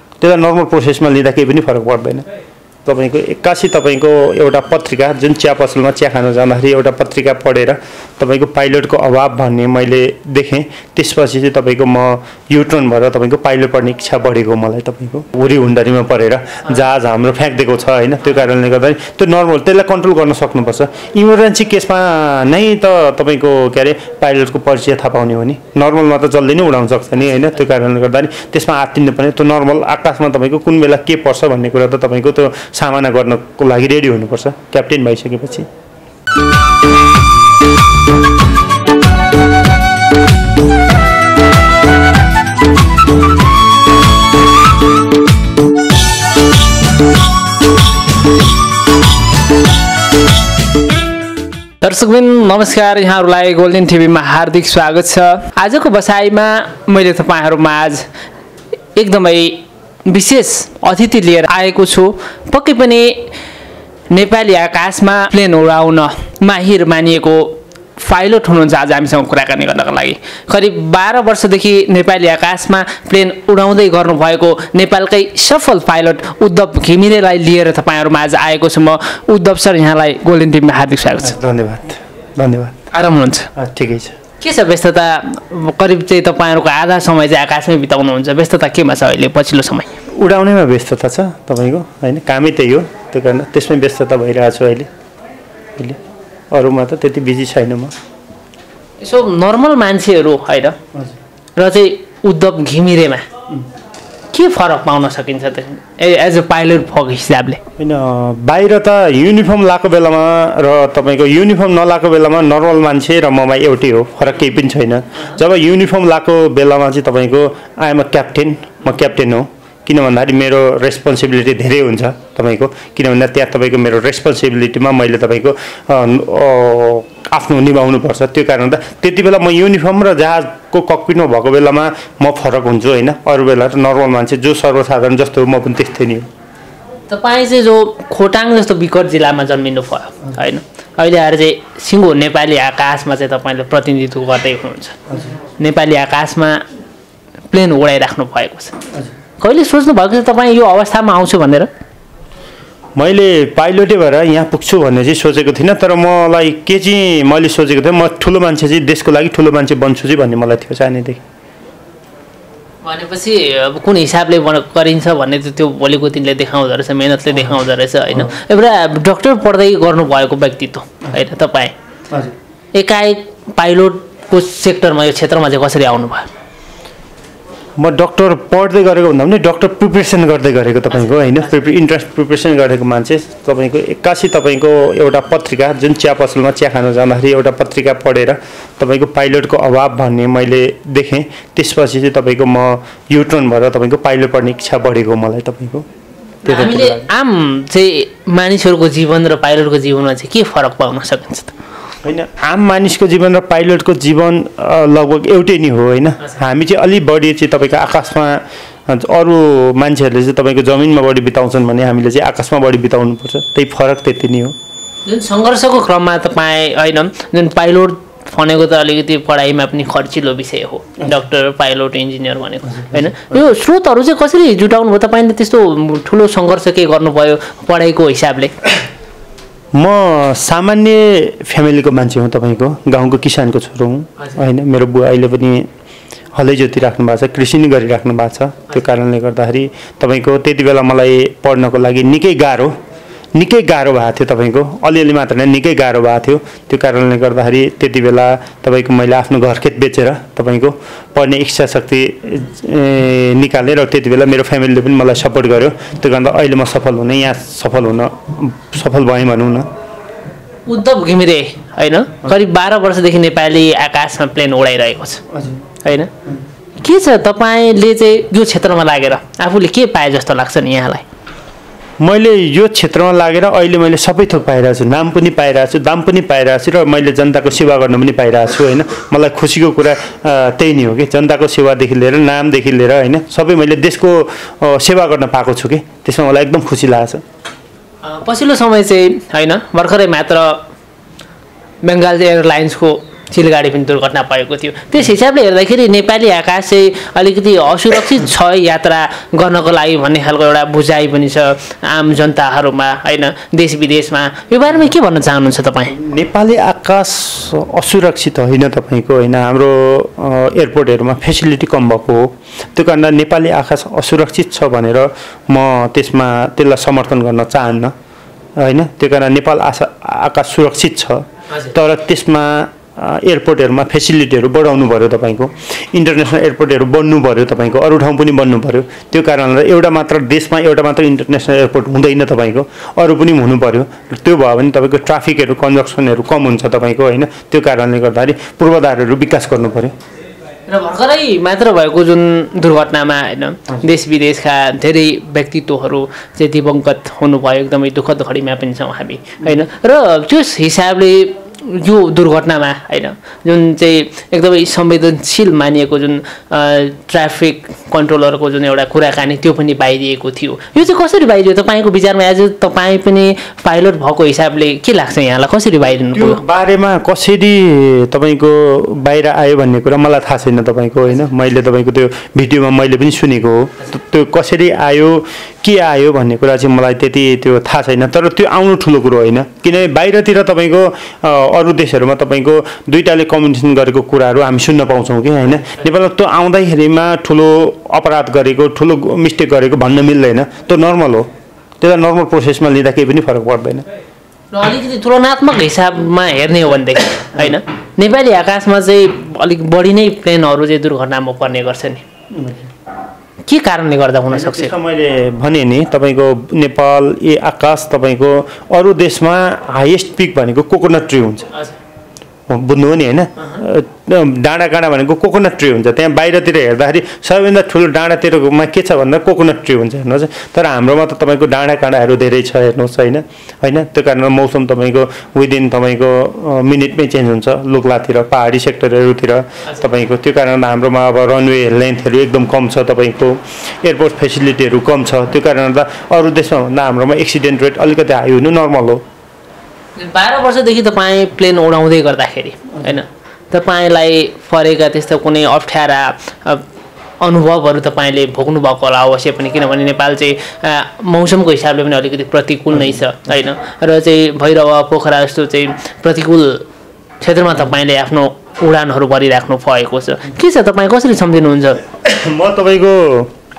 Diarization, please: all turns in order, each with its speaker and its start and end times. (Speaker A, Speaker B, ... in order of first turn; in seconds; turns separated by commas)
Speaker A: 0.2-2.3, Speaker A: 2.8-35.7, Speaker B: 51.8-58.1, Speaker B: 59.0-63.4, Speaker B: 64.1-81.3, Speaker A: 81.2-82.9, Speaker B: 82.9-83.5, Speaker A: 83.5-84.2, Speaker B: 84.4-89.9, Speaker A: 90.1-94.9, Speaker A: 96.5-97.9, Speaker B: 99.0-100.8, Speaker B: 101.5-103.3, Speaker B: 104.3-107.6, Speaker A: 107.8-136.3, Speaker B: 137.1-146.6, Speaker A: 145.1-145.3, Speaker B: 147.5-148.8, Speaker B: 149.4-151.7, Speaker A: 153.0-161.2, Speaker B: 162.8-171.7, Speaker B: 172.7-176.3, Speaker A: 177.8-195.8, Speaker B: 181.0-181.4, Speaker B: 196.4-201.5, Speaker A: 196.4-197.1, Speaker A: 202.0-214.5, Speaker B: 215.0-228.6, Speaker A: 222.7-223.4, Speaker A: 229.7-235.7, Speaker A: 236.3-242.8, Speaker A: 243.3-259.7, Speaker B: 260.6-265.2, Speaker A: 265.3-265.6, Speaker B: 265.8-266.1, Speaker B: 266.8-271.0, Speaker A: 272.0-287.2, Speaker B: 288.0-290.6, Speaker B: 291.8-305.9, Speaker A: 305.9-317.9, Speaker A: 318.6-339.9, Speaker B: 340.7-366.4, Speaker A: 366.1-391.3, Speaker A: 391.8-393.9, Speaker B: 394.5-402.0, Speaker A: 402.3-402.7, Speaker B: 403.4-404.7, Speaker A: 404.3-411.5, Speaker A: 412.5-439.0, Speaker B: 439.9-446.6, Speaker B: 447.2-456.7, Speaker B: 457.2-461.8, Speaker A: 461.9-463.3